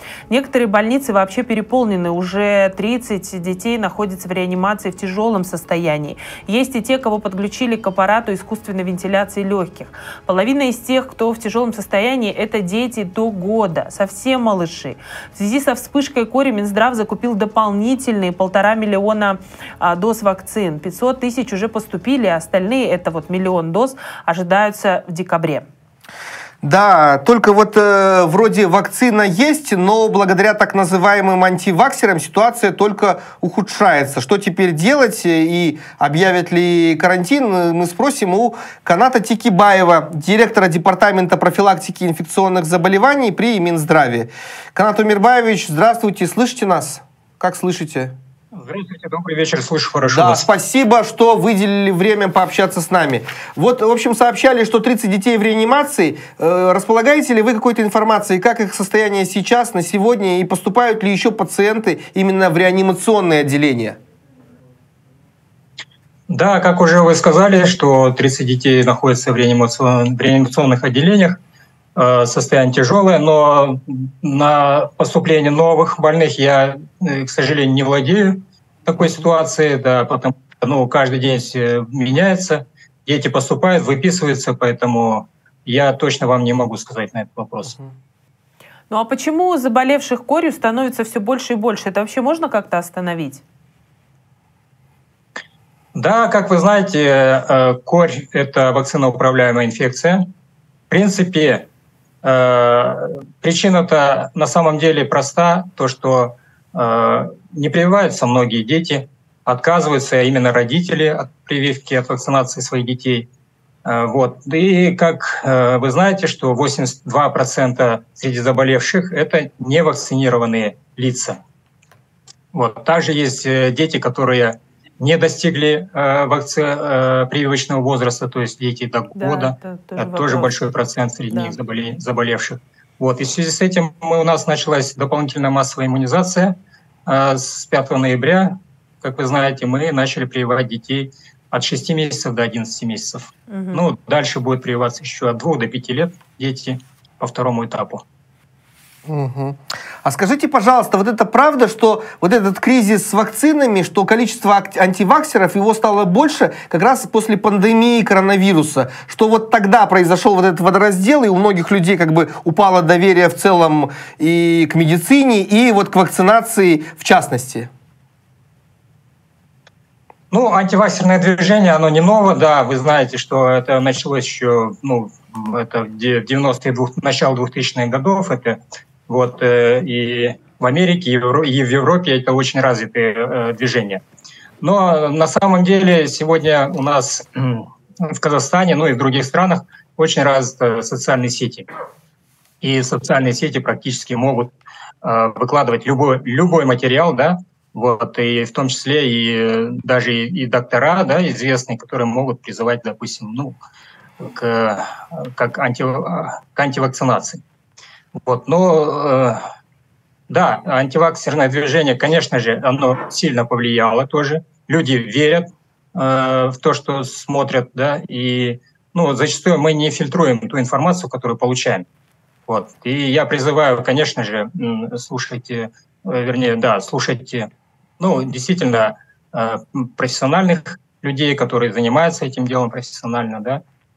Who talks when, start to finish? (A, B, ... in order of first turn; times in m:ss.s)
0:00.3-0:25.6 A
0:26.6-0:48.1 B
0:48.5-0:50.4 C
0:50.1-1:04.0 B
1:06.3-1:11.4 C
1:12.0-1:27.8 C
1:28.9-1:33.4 A
1:35.9-1:40.3 C
1:40.9-1:41.7 C
1:42.2-1:53.3 C
1:53.8-2:01.4 C
2:02.5-2:28.0 C
2:09.2-2:10.5 A
2:11.3-2:11.6 A
2:23.5-2:23.8 A
2:29.0-2:47.7 B
2:50.3-3:04.0 C
3:04.6-3:11.7 C
3:12.6-3:23.6 C
3:24.2-3:27.4 C
3:28.2-3:29.4 C
3:30.3-3:41.8 C
3:42.5-3:53.6 C